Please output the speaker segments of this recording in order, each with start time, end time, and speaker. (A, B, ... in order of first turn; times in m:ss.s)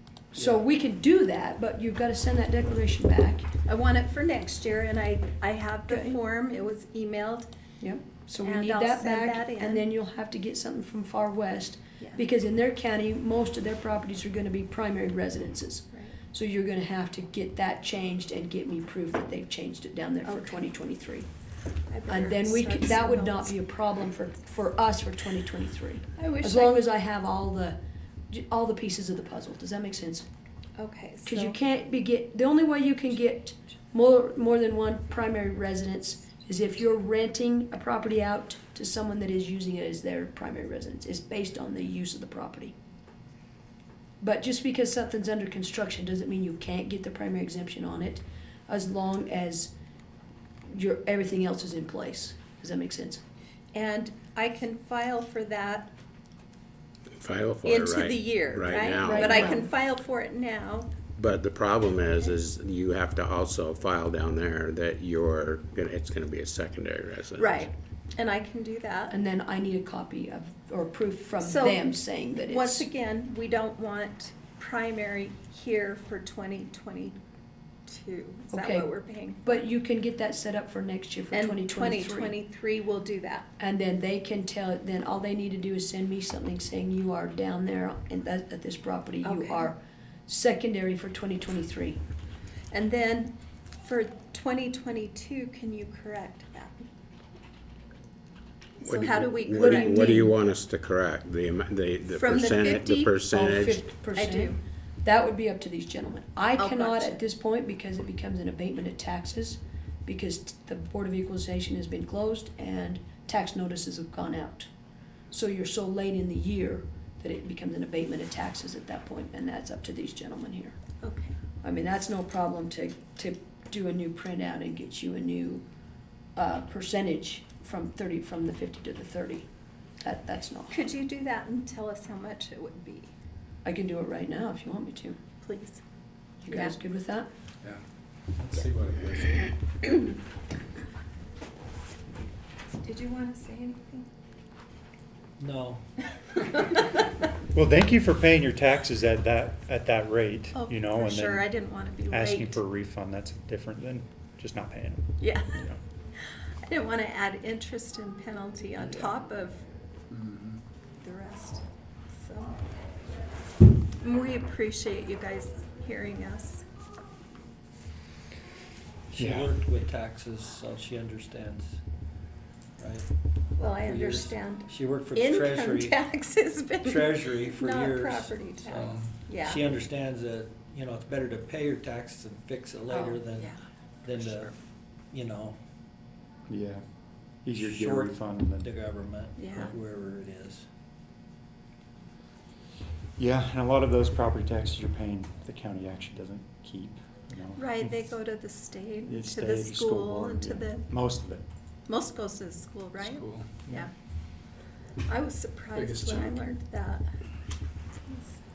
0:00.3-0:03.5 A
0:03.6-0:07.5 B
0:05.9-0:06.2 A
0:07.8-0:21.3 A
0:08.4-0:09.9 B
0:20.2-0:20.7 B
0:21.9-0:23.6 B
0:22.1-0:27.8 A
0:26.2-0:26.9 B
0:28.3-0:30.3 A
0:30.8-0:31.6 B
0:31.2-0:42.8 A
0:44.2-0:49.7 A
0:50.7-0:53.2 A
0:53.7-0:55.9 B
0:57.2-0:59.6 C
0:57.6-1:01.0 B
0:59.0-0:59.7 A
1:01.1-1:07.7 C
1:07.4-1:09.2 B
1:09.1-1:12.9 A
1:11.4-1:17.2 B
1:17.9-1:19.7 B
1:18.5-1:18.9 A
1:19.4-1:22.4 A
1:21.3-1:23.5 B
1:23.6-1:32.0 A
1:29.2-1:29.7 B
1:32.7-1:36.9 B
1:38.8-1:40.4 B
1:38.8-1:43.8 C
1:39.5-1:40.4 A
1:42.1-1:43.2 B
1:43.2-1:54.7 A
1:44.1-1:44.6 B
1:46.6-1:47.2 B
1:55.3-2:00.8 A
2:01.0-2:01.4 B
2:01.6-2:05.6 A
2:06.4-2:09.5 A
2:10.0-2:10.9 A
2:10.7-2:13.1 B
2:13.6-2:15.2 A
2:15.4-2:15.8 B
2:16.4-2:16.8 B
2:16.5-2:17.3 A
2:18.4-2:19.5 D
2:22.8-2:24.1 B
2:25.4-2:25.8 E
2:27.5-2:31.5 F
2:30.6-2:32.6 B
2:32.1-2:35.8 F
2:35.2-2:35.7 B
2:36.7-2:39.6 B
2:40.1-2:40.6 D
2:41.0-2:41.6 B
2:42.2-2:42.6 B
2:44.0-2:46.6 B
2:49.1-2:51.8 E
2:49.2-2:49.6 F
2:52.8-2:53.1 E
2:53.6-2:59.7 B
2:53.6-2:56.0 E
2:56.8-3:04.5 E
2:58.7-2:59.1 D
3:04.1-3:04.5 B
3:05.1-3:05.6 E
3:06.5-3:06.8 F
3:07.4-3:08.7 F
3:07.6-3:10.6 E
3:09.4-3:09.8 B
3:13.2-3:18.0 F
3:17.6-3:20.9 B
3:19.1-3:21.4 F
3:21.9-3:23.9 B
3:23.0-3:23.6 D
3:25.1-3:27.1 B
3:25.7-3:26.5 D
3:28.1-3:28.4 B